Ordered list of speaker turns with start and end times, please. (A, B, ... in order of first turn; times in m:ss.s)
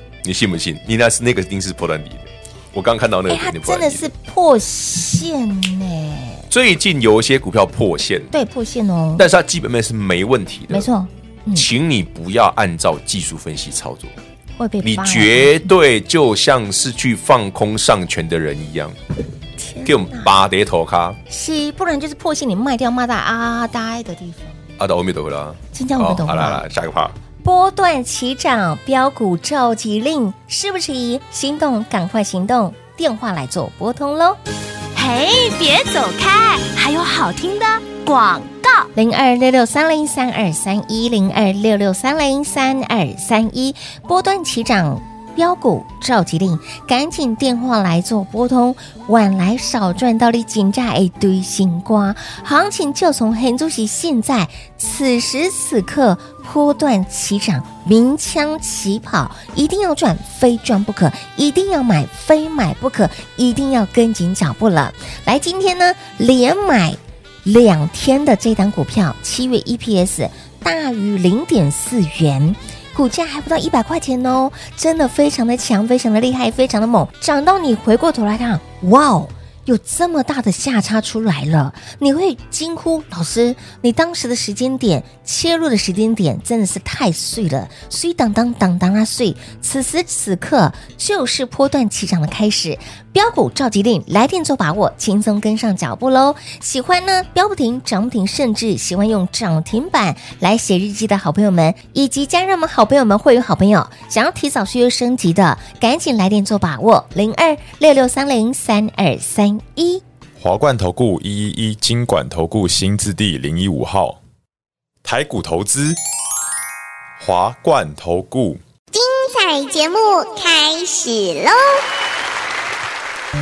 0:00.2-0:04.1 A
0:03.3-0:06.5 B
0:06.5-0:08.3 A
0:08.3-0:09.2 B
0:09.2-0:10.9 A
0:10.7-0:11.7 B
0:11.5-0:14.2 A
0:14.6-0:15.7 B
0:14.8-0:19.0 A
0:19.6-0:20.3 B
0:19.8-0:21.2 A
0:21.3-0:24.5 B
0:24.8-0:27.2 A
0:25.7-0:26.6 B
0:27.4-0:34.4 B
0:34.9-0:38.9 C
0:38.9-1:50.0 B
1:50.4-1:54.2 D
1:55.0-1:56.0 D
1:57.2-1:58.6 D
1:58.9-2:01.8 E